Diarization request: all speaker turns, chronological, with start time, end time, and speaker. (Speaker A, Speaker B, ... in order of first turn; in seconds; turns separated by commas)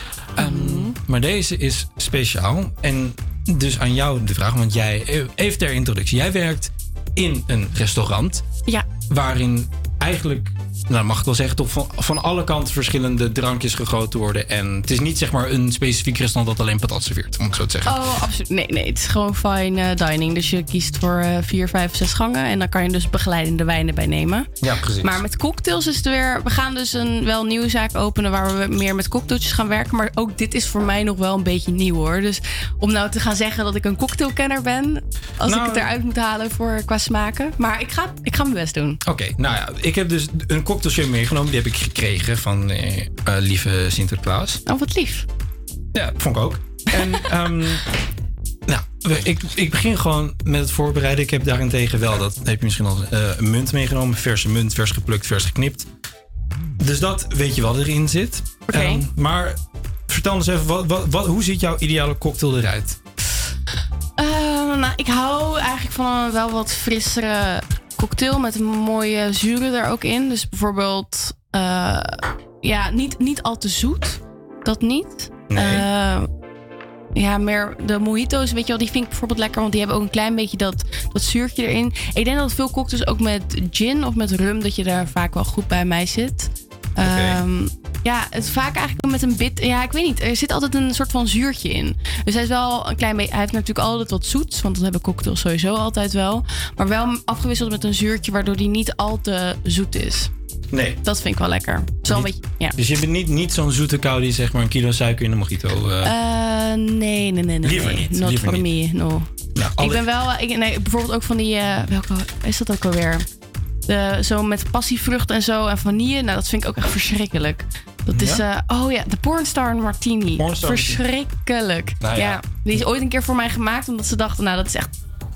Speaker A: 0.3-8.4, Speaker B: 0.4-0.9, Speaker A: 9.1-18.0, Speaker B: 17.9-24.5, Speaker A: 24.6-25.1, Speaker B: 25.0-39.0, Speaker A: 35.4-35.9, Speaker A: 39.0-44.6, Speaker B: 44.7-45.2, Speaker A: 45.9-47.8, Speaker A: 48.7-55.9, Speaker A: 56.8-59.6, Speaker B: 58.7-59.0, Speaker A: 60.1-63.0, Speaker B: 64.2-76.3, Speaker A: 75.5-75.8, Speaker B: 77.1-100.3, Speaker A: 87.0-87.4, Speaker A: 100.7-101.0, Speaker B: 101.0-102.8, Speaker A: 102.1-106.1, Speaker B: 106.0-113.2, Speaker A: 107.6-108.7, Speaker A: 109.5-110.0, Speaker B: 113.9-124.9, Speaker A: 118.1-118.4, Speaker A: 120.4-121.0, Speaker A: 122.0-122.4